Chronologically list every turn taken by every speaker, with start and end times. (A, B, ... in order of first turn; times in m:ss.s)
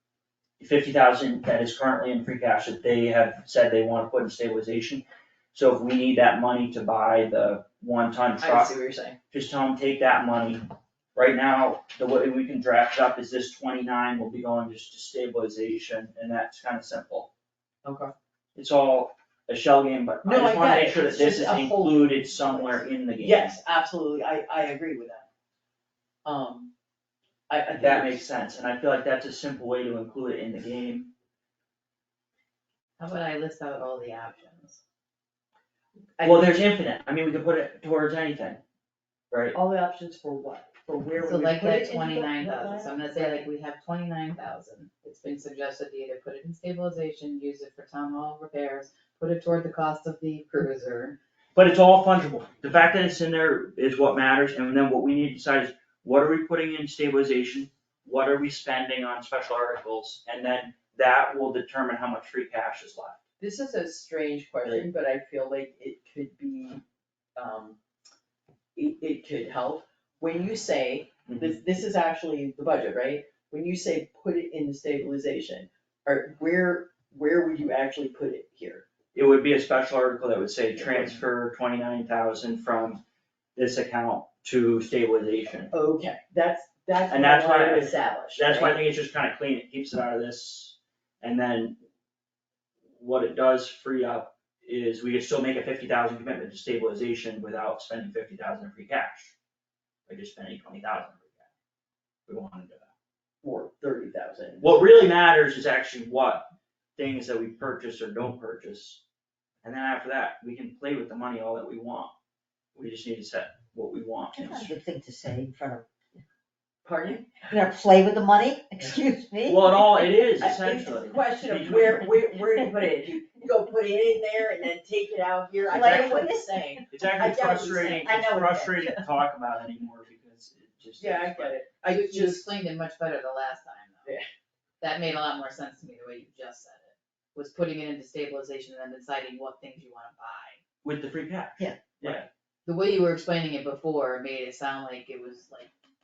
0:00.6-0:08.7 A
0:08.4-0:09.2 B
0:09.3-0:10.6 A
0:11.1-0:17.3 A
0:17.8-0:18.1 B
0:18.5-0:23.6 A
0:20.2-0:25.3 B
0:26.2-0:26.7 B
0:27.5-0:28.2 B
0:27.7-0:31.1 A
0:33.0-0:34.8 C
0:36.2-0:36.7 B
0:36.2-0:38.6 A
0:39.3-0:39.6 A
0:39.5-0:43.5 B
0:41.2-0:51.2 C
0:51.5-1:03.2 A
1:03.4-1:06.8 B
1:07.4-1:07.8 B
1:08.7-1:18.8 B
1:11.3-1:11.6 A
1:19.1-1:23.0 A
1:23.6-1:25.7 A
1:25.7-1:28.8 B
1:27.1-1:31.8 A
1:32.9-1:39.4 A
1:40.1-1:41.4 A
1:42.3-1:42.9 A
1:43.4-1:44.9 B
1:44.6-1:49.0 A
1:49.6-1:52.1 A
1:52.7-1:54.7 A
1:54.3-1:56.2 D
1:56.8-1:57.4 B
1:57.5-2:00.2 D
1:59.4-2:02.1 A
2:00.4-2:08.2 B
2:05.7-2:06.8 D
2:05.7-2:06.2 A
2:06.9-2:11.6 A
2:07.4-2:09.0 D
2:11.0-2:12.5 B
2:11.8-2:14.2 C
2:14.8-2:20.6 C
2:20.8-2:22.3 A
2:22.6-2:25.7 C